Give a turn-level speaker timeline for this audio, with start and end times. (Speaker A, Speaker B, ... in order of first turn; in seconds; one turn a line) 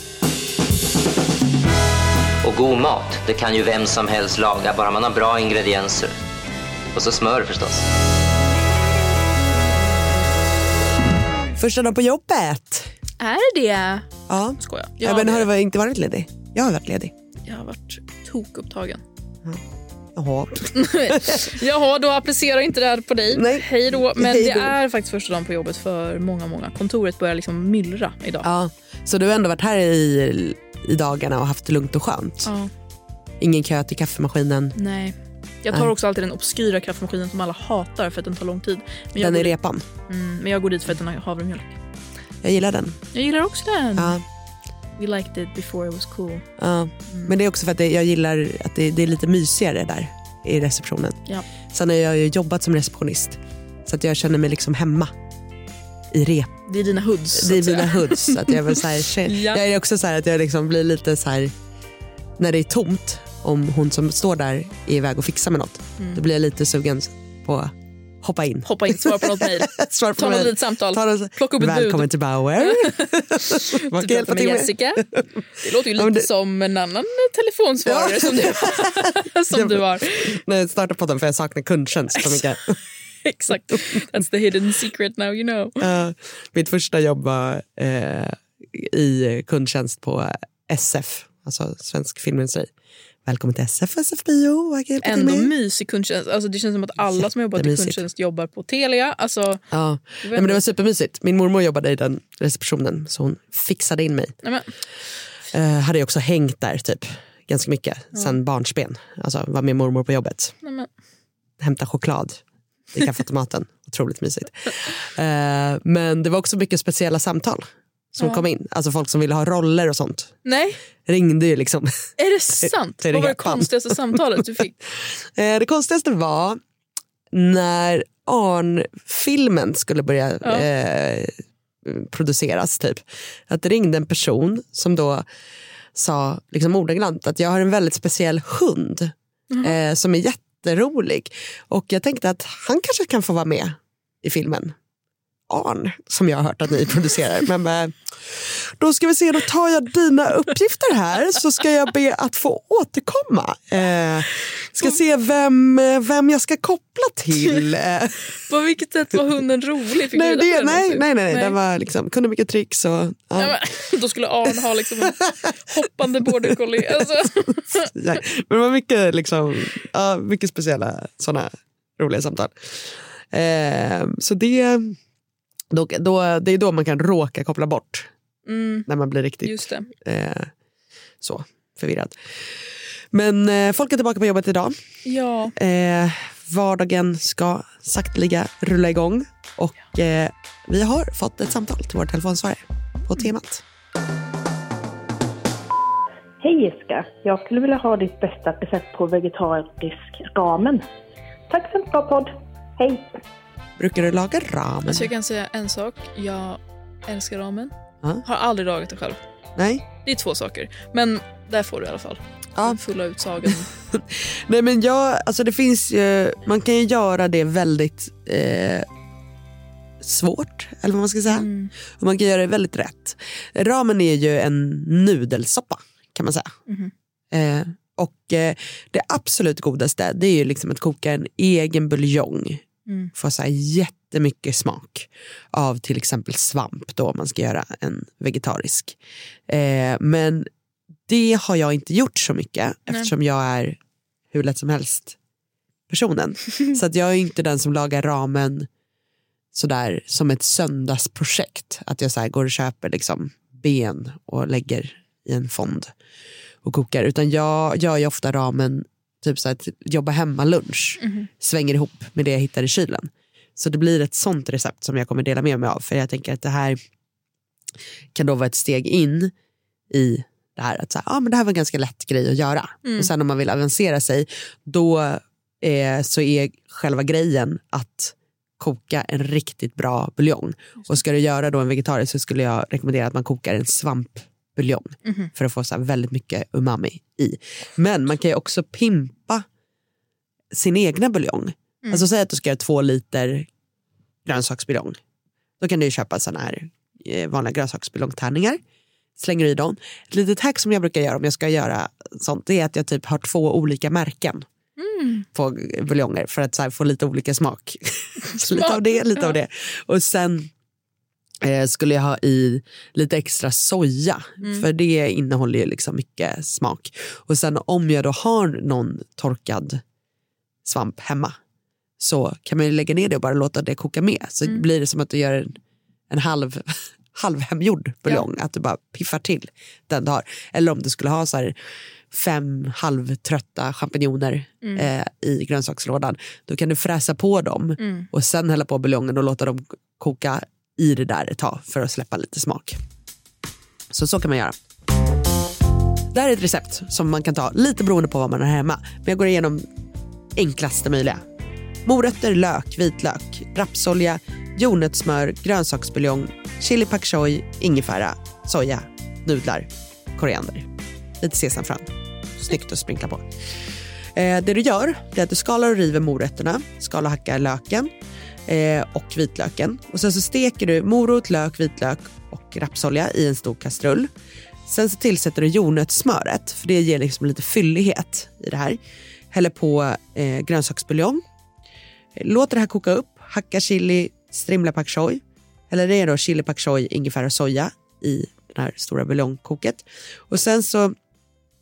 Speaker A: 2.4-6.1
Speaker A: 6.9-7.8
Speaker B: 11.6-12.9
Speaker C: 13.2-15.5
Speaker B: 14.3-17.1
Speaker C: 17.4-19.0
Speaker B: 20.1-21.5
Speaker C: 20.7-28.5
Speaker B: 23.3-24.8
Speaker B: 28.4-32.5
Speaker C: 32.4-32.7
Speaker B: 33.4-34.8
Speaker C: 34.8-39.5
Speaker B: 39.1-39.9
Speaker C: 40.1-41.8
Speaker B: 42.4-43.0
Speaker C: 43.1-44.2
Speaker B: 44.0-44.2
Speaker C: 45.0-46.5
Speaker B: 46.6-55.1
Speaker C: 47.1-47.3
Speaker B: 56.1-56.5
Speaker C: 56.7-59.6
Speaker B: 57.3-61.5
Speaker B: 62.4-75.2
Speaker C: 66.0-66.2
Speaker C: 68.6-80.4
Speaker B: 75.9-76.3
Speaker B: 77.9-82.8
Speaker C: 82.1-82.5
Speaker C: 83.2-85.8
Speaker B: 85.8-92.7
Speaker B: 93.2-95.5
Speaker C: 95.0-99.7
Speaker B: 97.0-98.0
Speaker B: 99.7-104.4
Speaker C: 100.2-100.6
Speaker C: 104.4-104.7
Speaker B: 105.5-110.6
Speaker C: 108.1-108.4
Speaker C: 110.6-110.9
Speaker B: 111.6-112.4
Speaker B: 112.9-120.4
Speaker C: 120.4-120.8
Speaker B: 121.0-123.8
Speaker C: 122.2-124.8
Speaker B: 125.3-126.6
Speaker B: 127.3-131.3
Speaker C: 130.4-130.7
Speaker B: 131.8-135.2
Speaker B: 135.9-139.1
Speaker C: 139.5-139.8
Speaker B: 139.6-144.7
Speaker B: 145.5-158.2
Speaker C: 158.4-161.6
Speaker B: 160.1-163.6
Speaker C: 163.4-167.9
Speaker B: 167.9-175.0
Speaker B: 175.7-178.1
Speaker C: 178.4-178.9
Speaker B: 178.9-180.5
Speaker C: 179.4-179.9
Speaker B: 181.2-182.2
Speaker B: 183.1-184.8
Speaker C: 185.0-185.5
Speaker B: 185.6-193.6
Speaker D: 196.4-200.8
Speaker D: 201.5-203.2
Speaker B: 203.8-205.1
Speaker C: 204.9-209.2
Speaker B: 209.6-209.8
Speaker C: 210.0-213.7
Speaker B: 213.9-218.8
Speaker B: 220.0-226.5
Speaker C: 221.3-221.7
Speaker C: 226.7-226.9
Speaker B: 227.3-232.6
Speaker C: 232.9-233.1
Speaker B: 233.1-239.0
Speaker B: 239.5-240.5
Speaker B: 241.1-243.8
Speaker B: 244.3-245.2
Speaker B: 245.9-248.7
Speaker B: 249.5-255.9
Speaker B: 256.6-266.8
Speaker C: 261.0-261.3
Speaker B: 268.1-269.3
Speaker B: 269.9-289.4
Speaker C: 272.8-273.1
Speaker C: 285.0-285.3
Speaker B: 290.5-293.5
Speaker C: 291.8-292.1
Speaker B: 294.2-295.0
Speaker B: 295.6-298.6
Speaker B: 299.1-304.4
Speaker C: 304.8-305.2
Speaker B: 305.3-310.5
Speaker C: 308.2-309.4
Speaker B: 311.4-319.8
Speaker B: 320.6-321.3
Speaker B: 322.0-325.6
Speaker B: 326.1-331.5
Speaker B: 332.1-342.8
Speaker C: 334.6-334.9
Speaker C: 337.8-338.1
Speaker B: 343.9-344.5
Speaker B: 346.1-349.6
Speaker B: 350.4-351.2
Speaker B: 351.8-360.7
Speaker B: 361.2-361.9
Speaker B: 362.4-363.2
Speaker B: 364.1-367.9
Speaker B: 368.5-374.1
Speaker B: 374.7-378.8
Speaker B: 379.3-381.2
Speaker B: 382.2-390.9